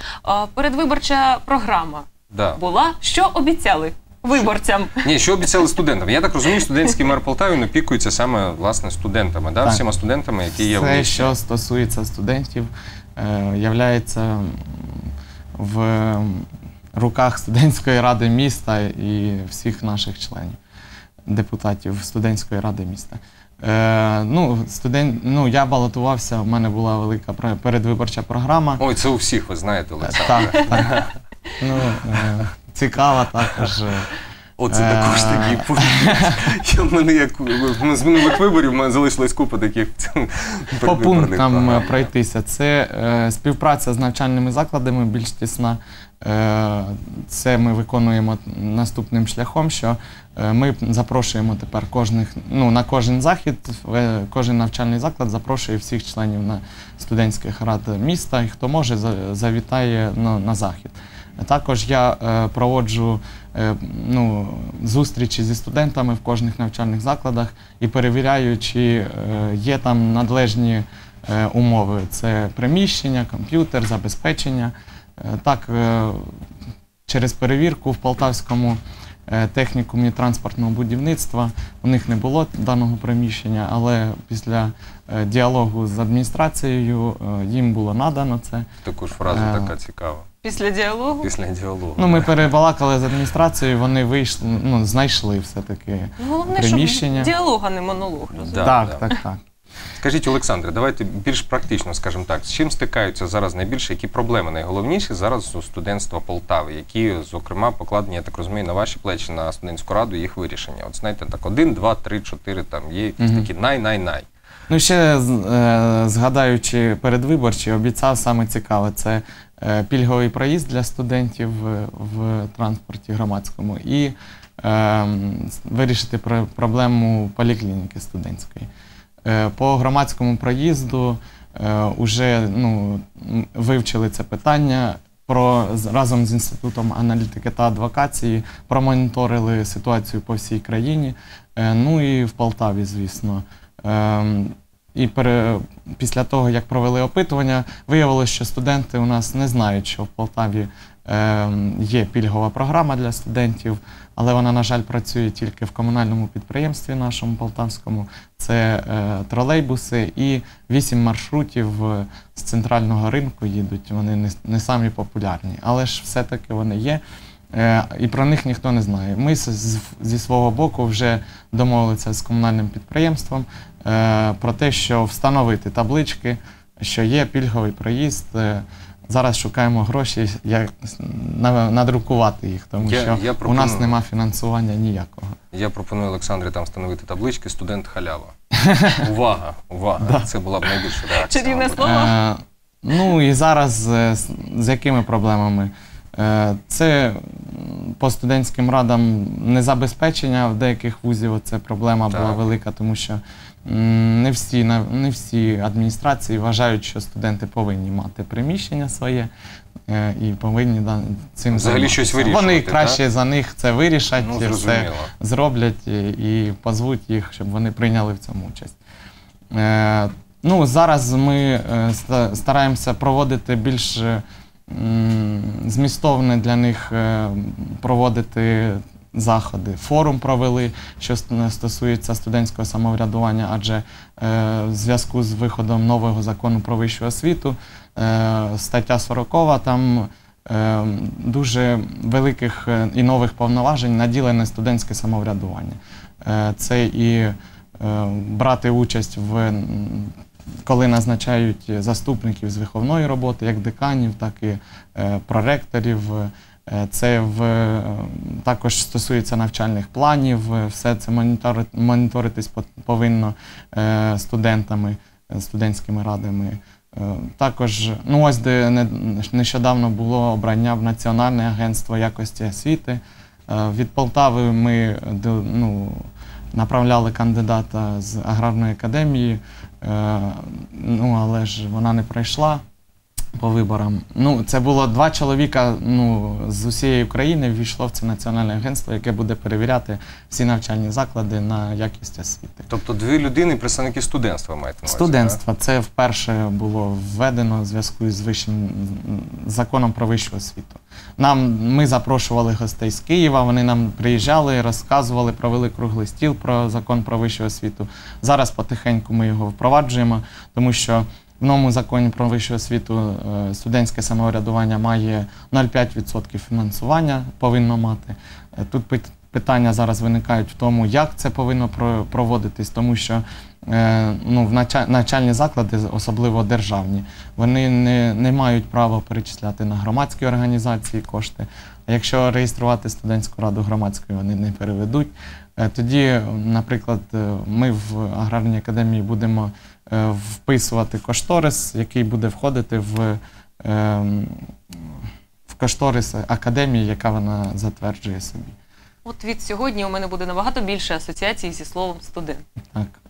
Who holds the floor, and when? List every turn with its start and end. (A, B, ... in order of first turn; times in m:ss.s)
0:00.2-0:05.1 A
0:02.3-0:02.6 B
0:05.0-0:11.3 B
0:10.6-0:20.6 C
0:21.3-0:28.8 C
0:28.8-0:31.1 B
0:30.0-0:30.9 C
0:31.6-0:34.1 C
0:34.6-0:42.1 B
0:34.7-0:36.3 C
0:40.8-1:16.3 C
1:17.1-1:28.7 C
1:28.8-1:30.2 B
1:29.2-1:29.7 C
1:30.4-1:31.3 A
1:31.2-1:32.5 B
1:32.0-1:37.3 C
1:36.2-1:38.8 A
1:38.4-1:39.0 B
1:38.6-1:39.4 C
1:40.0-1:54.2 B
1:53.2-1:53.5 C
1:54.7-2:08.7 C
2:09.2-2:47.0 C
2:47.5-3:05.3 C
3:02.8-3:04.0 B
3:05.5-3:08.3 B
3:08.6-3:09.0 C
3:09.0-3:11.9 B
3:10.0-3:10.3 C
3:11.2-3:12.1 A
3:11.8-3:29.3 C
3:22.1-3:22.4 B
3:29.9-3:38.8 C
3:31.5-3:33.0 B
3:34.2-3:35.1 B
3:39.5-4:10.1 C
4:10.6-4:42.6 C
4:43.4-4:52.7 C
4:52.7-4:55.4 B
4:54.8-5:44.4 C
5:45.5-5:48.5 C
5:49.0-5:52.4 A